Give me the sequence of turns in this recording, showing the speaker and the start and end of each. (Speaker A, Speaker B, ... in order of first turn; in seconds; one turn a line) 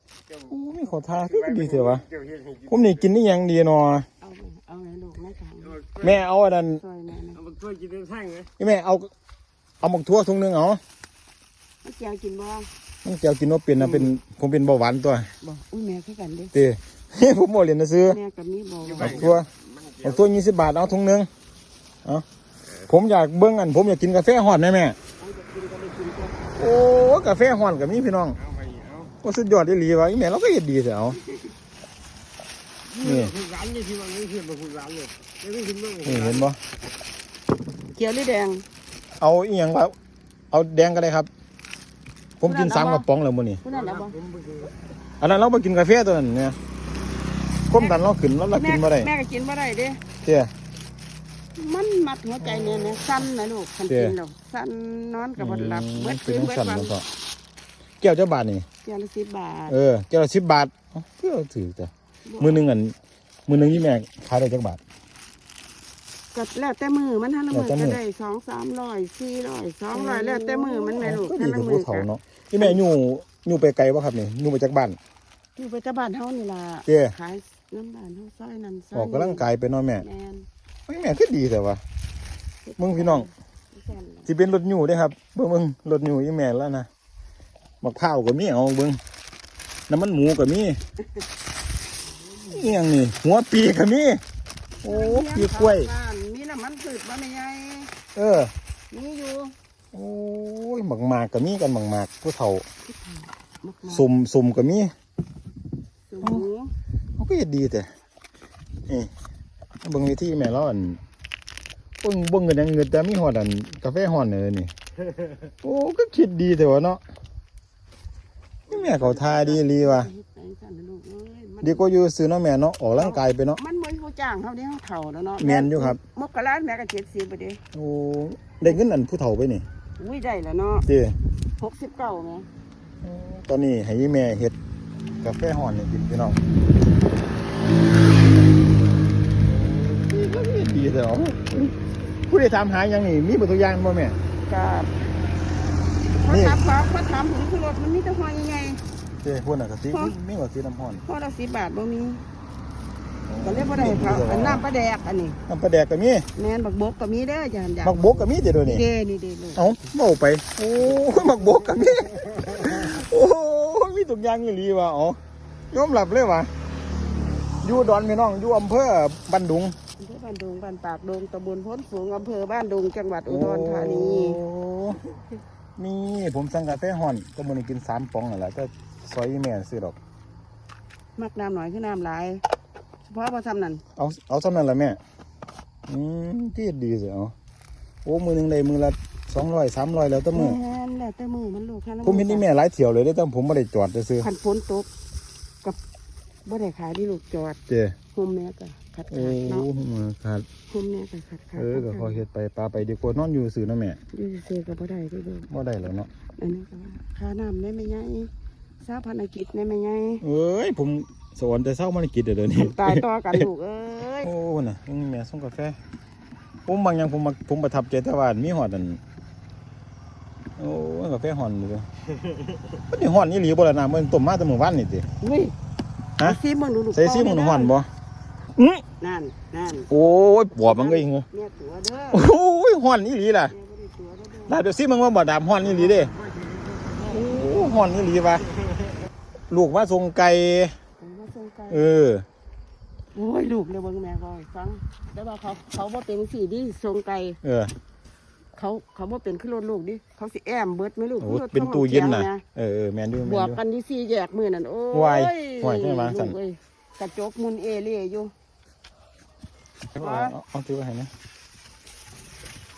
Speaker A: 0.5-2.0
Speaker B: 1.1-3.0
Speaker A: 2.7-4.1
Speaker C: 4.2-5.8
Speaker B: 5.7-6.2
Speaker A: 6.0-6.8
Speaker C: 6.8-7.4
Speaker B: 7.3-8.5
Speaker A: 8.6-9.1
Speaker A: 9.8-10.8
Speaker C: 11.8-12.7
Speaker A: 13.0-15.3
Speaker C: 13.8-14.1
Speaker C: 15.4-16.5
Speaker A: 16.5-18.2
Speaker C: 18.1-19.3
Speaker B: 18.8-20.2
Speaker A: 19.0-19.5
Speaker A: 20.0-21.3
Speaker A: 22.9-25.0
Speaker C: 25.2-26.5
Speaker A: 26.6-28.4
Speaker B: 28.4-29.1
Speaker A: 29.2-31.2
Speaker B: 32.9-36.5
Speaker A: 33.0-33.3
Speaker A: 36.0-36.6
Speaker C: 37.9-38.6
Speaker A: 39.2-39.9
Speaker A: 40.5-41.3
Speaker A: 42.4-43.6
Speaker C: 42.4-43.0
Speaker C: 43.6-44.1
Speaker B: 43.7-44.7
Speaker A: 45.2-46.6
Speaker A: 47.7-49.1
Speaker C: 47.7-48.0
Speaker C: 48.5-50.0
Speaker A: 50.2-50.5
Speaker C: 51.5-56.9
Speaker A: 52.4-53.2
Speaker A: 53.9-54.1
Speaker A: 55.4-57.0
Speaker A: 58.0-58.6
Speaker C: 58.8-59.8
Speaker A: 59.7-62.9
Speaker C: 62.2-62.6
Speaker A: 63.5-64.8
Speaker C: 66.3-72.1
Speaker A: 67.5-68.0
Speaker A: 69.9-75.0
Speaker C: 75.5-79.4
Speaker A: 76.9-77.1
Speaker A: 78.9-80.0
Speaker C: 80.0-80.5
Speaker A: 80.9-81.8
Speaker C: 82.6-84.3
Speaker A: 82.8-83.3
Speaker A: 84.3-86.9
Speaker A: 87.8-89.0
Speaker A: 89.9-90.8
Speaker C: 92.2-92.8
Speaker A: 92.5-94.2
Speaker A: 94.8-95.9
Speaker C: 94.8-97.9
Speaker A: 98.1-98.5
Speaker C: 98.9-99.5
Speaker A: 99.9-102.6
Speaker C: 102.8-104.0
Speaker A: 103.9-104.9
Speaker C: 106.1-106.7
Speaker A: 107.2-107.9
Speaker A: 109.8-111.0
Speaker A: 112.0-114.7
Speaker A: 115.6-117.0
Speaker B: 118.7-119.5
Speaker A: 118.7-120.1
Speaker C: 119.4-121.8
Speaker A: 121.6-123.6
Speaker C: 123.0-127.6
Speaker A: 125.4-126.0
Speaker A: 127.7-129.6
Speaker C: 130.0-130.8
Speaker A: 130.9-131.1
Speaker C: 131.6-132.5
Speaker A: 133.0-134.5
Speaker A: 135.2-136.4
Speaker A: 139.4-141.8
Speaker A: 142.3-144.2
Speaker C: 144.5-144.9
Speaker C: 146.2-148.8
Speaker A: 146.3-146.6
Speaker A: 149.2-151.0
Speaker C: 151.0-152.2
Speaker A: 153.3-154.6
Speaker C: 153.4-155.4
Speaker A: 155.5-156.3
Speaker C: 156.3-159.8
Speaker A: 157.8-158.8
Speaker A: 159.6-165.2
Speaker A: 165.7-166.5
Speaker A: 167.6-169.8
Speaker C: 170.0-174.4
Speaker A: 173.3-175.1
Speaker A: 175.8-180.0
Speaker C: 181.2-182.4
Speaker C: 183.0-183.8
Speaker A: 183.9-185.0
Speaker A: 185.9-187.3
Speaker A: 188.0-190.6
Speaker C: 190.3-192.5
Speaker A: 192.0-194.3
Speaker C: 194.2-194.9
Speaker C: 196.4-197.6
Speaker A: 197.7-197.9
Speaker C: 198.1-199.7
Speaker A: 199.1-200.4
Speaker C: 200.7-202.2
Speaker A: 201.6-204.0
Speaker C: 204.1-205.5
Speaker A: 205.5-206.1
Speaker C: 206.3-208.3
Speaker C: 208.8-210.2
Speaker A: 210.2-213.5
Speaker C: 212.6-214.3
Speaker A: 214.2-215.8
Speaker A: 216.7-219.0
Speaker A: 220.6-221.8
Speaker A: 222.9-225.1
Speaker C: 225.2-225.5
Speaker C: 226.2-227.8
Speaker A: 226.9-227.9
Speaker A: 228.5-228.8
Speaker C: 229.0-229.9
Speaker A: 229.9-231.2
Speaker C: 230.6-232.3
Speaker A: 232.1-233.5
Speaker C: 233.5-234.6
Speaker A: 234.5-236.1
Speaker B: 235.6-237.2
Speaker A: 237.0-238.4
Speaker A: 239.5-240.7
Speaker C: 241.0-241.9
Speaker A: 241.7-242.2
Speaker C: 243.1-247.4
Speaker A: 247.4-247.7
Speaker C: 248.5-252.4
Speaker A: 251.2-253.6
Speaker C: 253.2-258.3
Speaker A: 254.9-256.4
Speaker A: 259.9-261.1
Speaker C: 260.0-260.4